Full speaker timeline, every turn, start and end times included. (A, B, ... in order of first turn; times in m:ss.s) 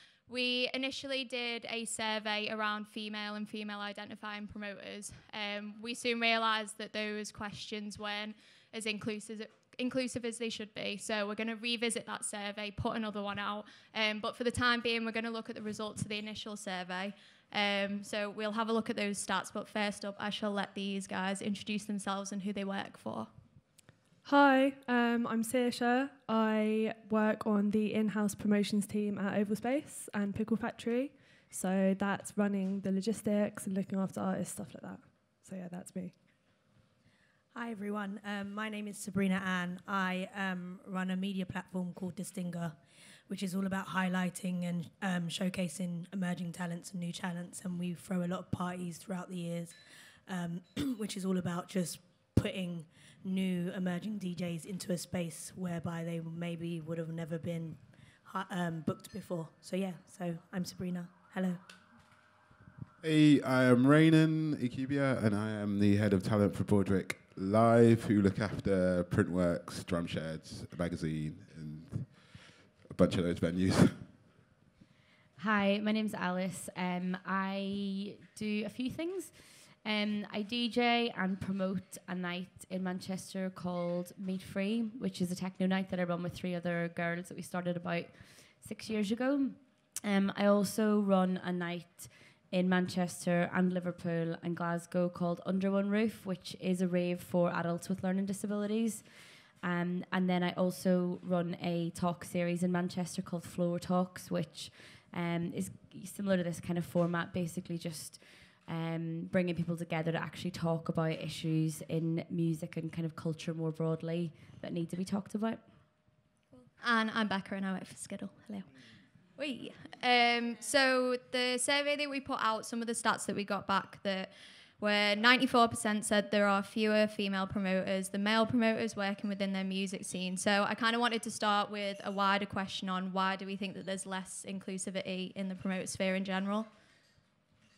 0:00.3-0:23.3 A
0:24.2-0:36.1 B
0:37.5-0:42.8 C
0:43.3-0:49.8 C
0:50.3-1:01.6 C
1:03.0-1:12.1 D
1:12.9-1:14.0 D
1:15.4-1:19.3 E
1:19.8-1:39.0 E
1:39.6-1:55.6 E
1:56.8-1:58.7 A
1:59.4-2:16.7 A